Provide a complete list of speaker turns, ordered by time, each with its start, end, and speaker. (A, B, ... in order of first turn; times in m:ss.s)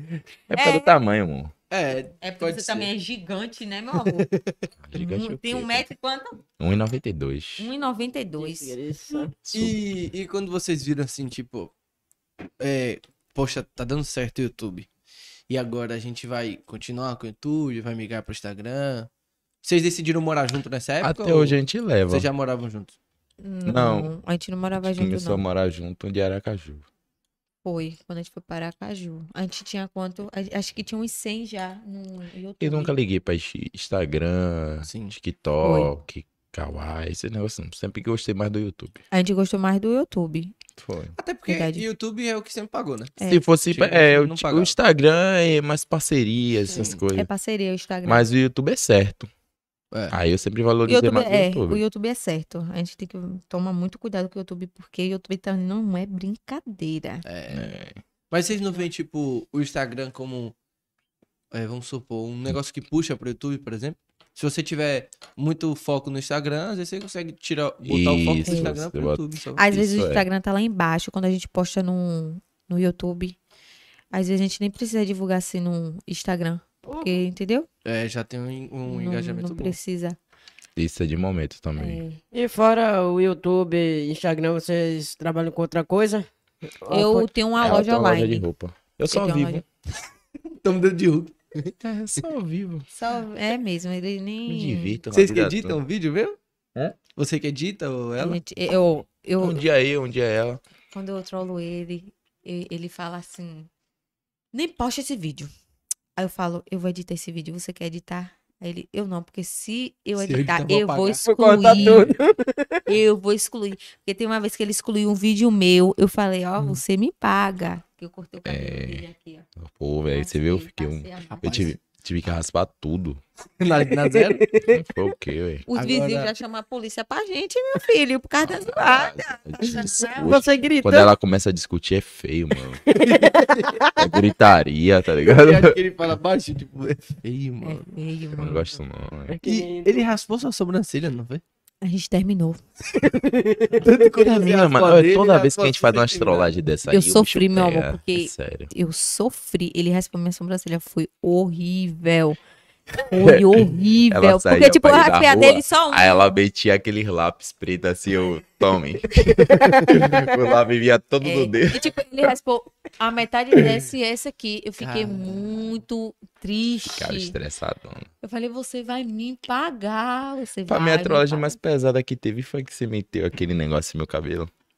0:00.5-0:01.5 A
0:00.5-0:00.9 B
0:01.7-0:02.9 C
0:02.2-0:04.3 B
0:04.0-0:04.6 C
0:04.8-0:05.8 A
0:04.9-0:06.4 B
0:06.6-0:07.7 A
0:07.6-0:08.7 B
0:08.4-0:09.3 D
0:09.4-0:09.8 A
0:09.5-0:11.7 C
0:12.6-0:14.9 C
0:15.5-0:19.1 C
0:19.6-0:23.0 C
0:21.0-0:22.3 A
0:23.4-0:25.4 B
0:23.6-0:24.1 A
0:24.9-0:26.9 A
0:27.6-0:32.9 B
0:32.6-0:39.0 A
0:34.8-0:35.1 C
0:35.6-0:35.9 B
0:39.1-0:40.5 B
0:40.8-0:41.1 A
0:41.2-0:44.8 C
0:41.5-0:41.8 B
0:43.2-0:47.3 A
0:46.7-0:47.0 C
0:47.1-0:48.2 B
0:48.0-0:49.3 A
0:50.1-0:51.8 A
0:50.9-0:57.2 B
0:57.2-0:57.6 C
0:57.5-0:58.0 A
0:58.3-1:00.5 C
1:01.5-1:09.7 C
1:07.8-1:10.2 A
1:08.4-1:08.7 B
1:09.6-1:13.4 B
1:14.1-1:17.7 B
1:16.9-1:17.2 D
1:17.8-1:19.8 C
1:18.9-1:20.2 B
1:20.8-1:22.0 A
1:21.8-1:22.2 B
1:22.3-1:26.2 D
1:26.8-1:27.3 D
1:26.9-1:28.5 B
1:27.6-1:29.6 A
1:29.1-1:29.6 B
1:30.6-1:32.2 C
1:31.8-1:32.9 A
1:32.9-1:35.0 B
1:34.5-1:35.8 A
1:35.1-1:36.4 C
1:37.1-1:38.4 C
1:38.2-1:39.6 B
1:39.4-1:40.6 A
1:40.9-1:43.7 B
1:44.5-1:45.5 B
1:46.2-1:52.1 B
1:50.2-1:52.1 C
1:51.2-1:52.8 D
1:52.9-1:59.4 B
1:58.4-1:59.0 A
1:59.6-2:03.2 A
2:00.1-2:01.7 B
2:01.4-2:01.7 C
2:03.6-2:04.5 C
2:04.1-2:04.8 D
2:04.7-2:05.6 A
2:05.7-2:10.3 B
2:05.7-2:06.3 C
2:08.4-2:12.8 A
2:10.2-2:11.1 D
2:12.8-2:14.0 D
2:12.9-2:14.0 C
2:14.0-2:15.8 A
2:15.2-2:17.9 C
2:17.6-2:18.7 B
2:18.4-2:19.4 A
2:19.3-2:20.1 D
2:19.4-2:21.4 C
2:21.8-2:22.6 B
2:22.9-2:23.8 D
2:23.8-2:26.6 C
2:24.2-2:28.7 A
2:26.9-2:32.4 B
2:33.1-2:36.2 B
2:33.2-2:41.8 A
2:39.6-2:40.1 D
2:41.2-2:47.4 B
2:44.8-2:45.7 C
2:47.0-2:48.1 A
2:48.2-2:51.6 B
2:50.6-2:54.5 A